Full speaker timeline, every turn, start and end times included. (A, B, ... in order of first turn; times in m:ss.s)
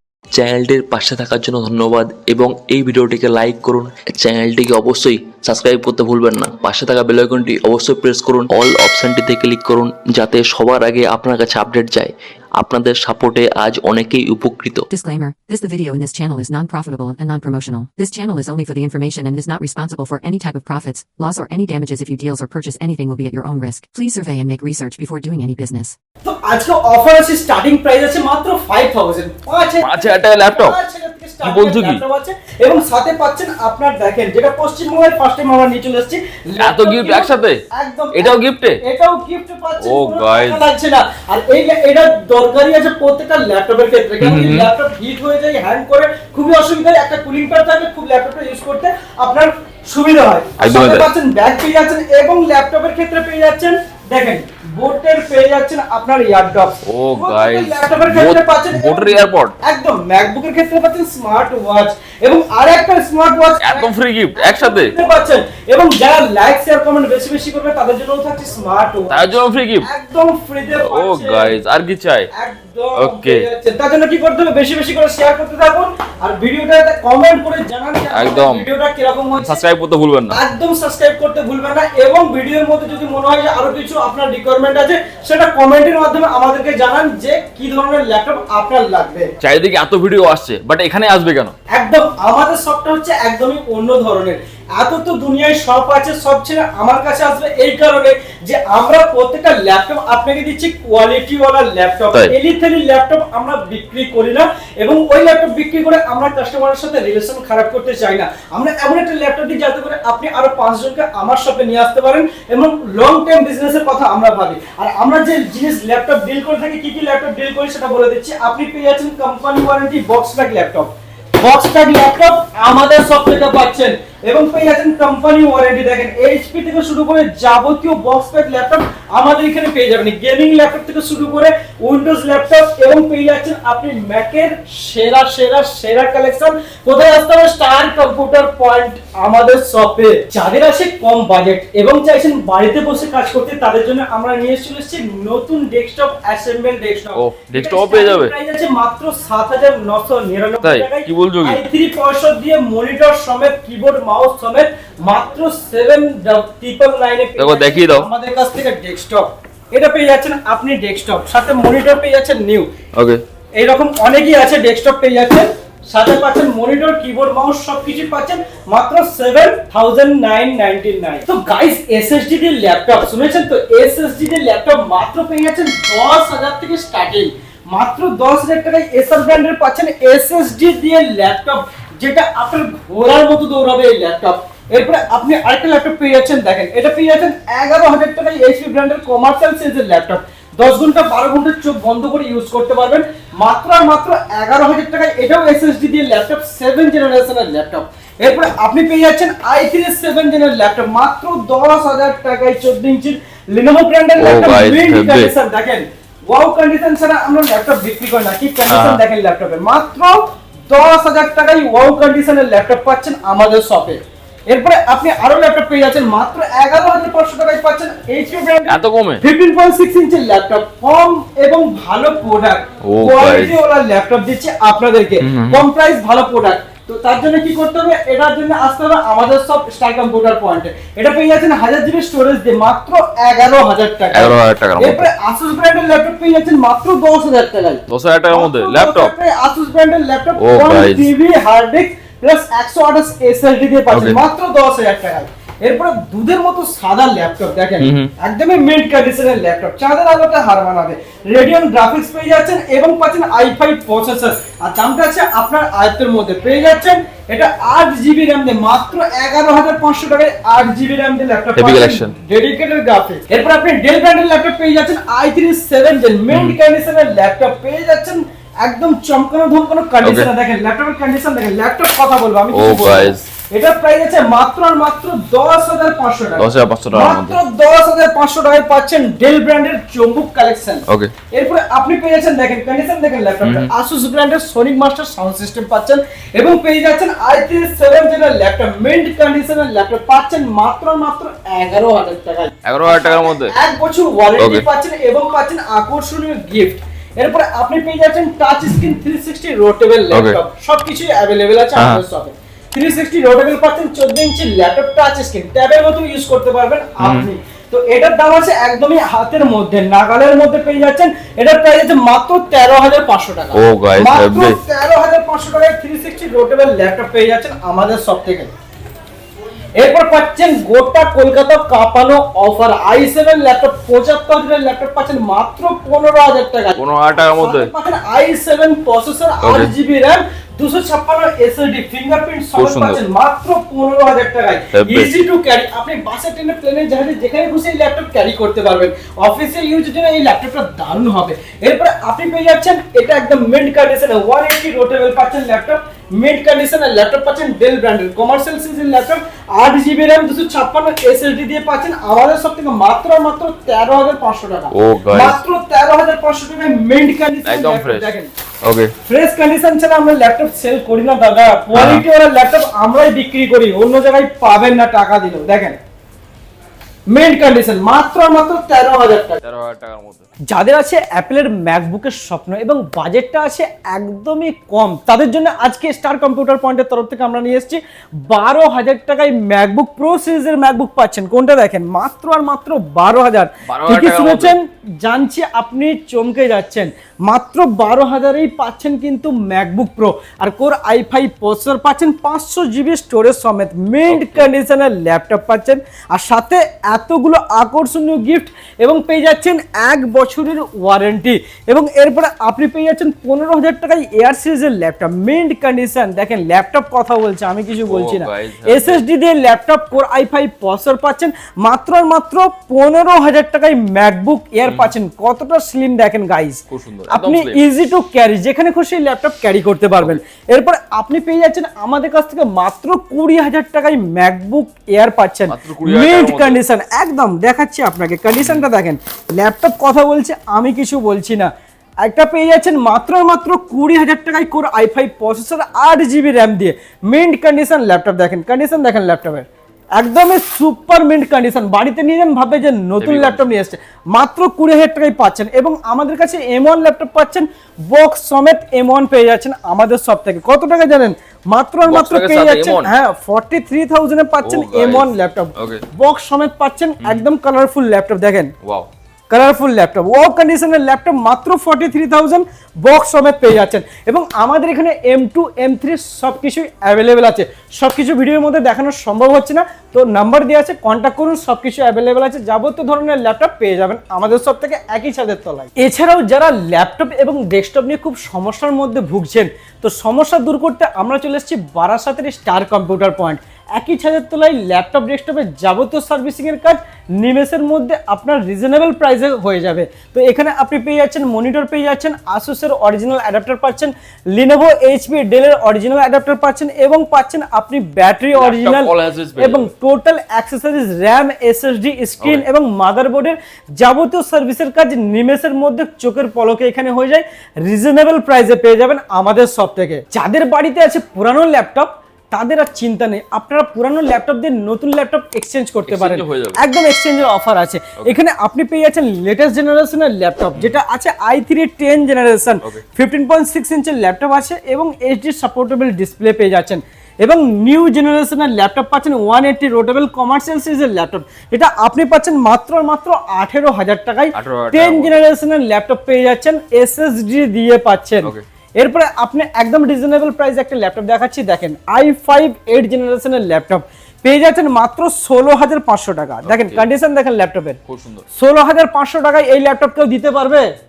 0:00.3-0:14.8 A
0:14.9-0:26.0 B
0:26.2-1:11.6 C
0:29.8-0:30.8 D
0:31.4-0:32.0 D
0:36.6-0:37.6 D
0:38.1-0:38.8 D
0:39.8-0:40.6 D
0:44.2-0:44.7 D
0:50.6-0:51.0 D
0:56.8-0:59.5 D
1:03.6-1:04.9 D
1:09.1-1:09.9 D
1:10.8-1:12.3 D
1:12.3-1:19.6 C
1:13.0-1:13.4 D
1:18.1-1:18.7 D
1:19.4-1:20.4 D
1:20.3-1:29.3 C
1:29.4-1:31.5 D
1:31.7-2:42.7 C
2:27.1-2:28.3 D
2:30.6-2:31.6 D
2:37.4-2:38.1 D
2:42.9-2:43.2 D
2:43.5-5:18.5 C
3:24.2-3:25.3 D
3:28.7-3:29.0 D
3:38.7-3:39.2 D
3:42.8-3:43.6 D
3:45.2-3:45.6 D
3:54.1-3:55.1 D
3:57.9-3:59.1 D
4:00.4-4:01.1 D
4:03.9-4:04.2 D
4:07.8-4:08.1 D
4:21.6-4:22.1 D
4:26.3-4:26.6 D
4:30.0-4:30.3 D
4:32.5-4:33.2 D
4:36.4-4:37.4 D
4:40.9-4:41.1 D
4:43.4-4:43.7 D
4:52.6-4:53.5 D
4:54.4-4:54.6 D
5:00.1-5:00.4 D
5:01.8-5:02.0 D
5:07.0-5:07.3 D
5:13.5-5:14.6 D
5:19.8-5:26.8 C
5:26.8-5:27.7 D
5:27.3-5:58.3 C
5:29.4-5:29.7 D
5:32.5-5:33.0 D
5:34.7-5:35.1 D
5:54.7-5:55.4 D
5:57.4-5:58.1 D
5:58.6-5:58.9 D
5:59.1-6:05.8 C
6:01.7-6:02.0 D
6:07.1-6:09.4 C
6:09.4-6:10.2 D
6:10.5-7:11.5 C
6:23.7-6:24.5 D
6:34.1-6:34.5 D
6:47.9-6:49.0 D
6:54.6-6:54.9 D
6:56.7-6:57.6 D
7:05.5-7:06.6 D
7:12.0-7:38.5 C
7:23.0-7:23.5 D
7:31.8-7:32.9 D
7:34.4-7:35.8 D
7:38.6-7:38.9 D
7:39.3-9:07.8 C
8:18.3-8:19.7 D
8:35.9-8:36.6 D
8:54.3-8:55.2 D
9:06.4-9:06.9 D
9:07.9-9:08.2 D
9:08.4-9:10.7 C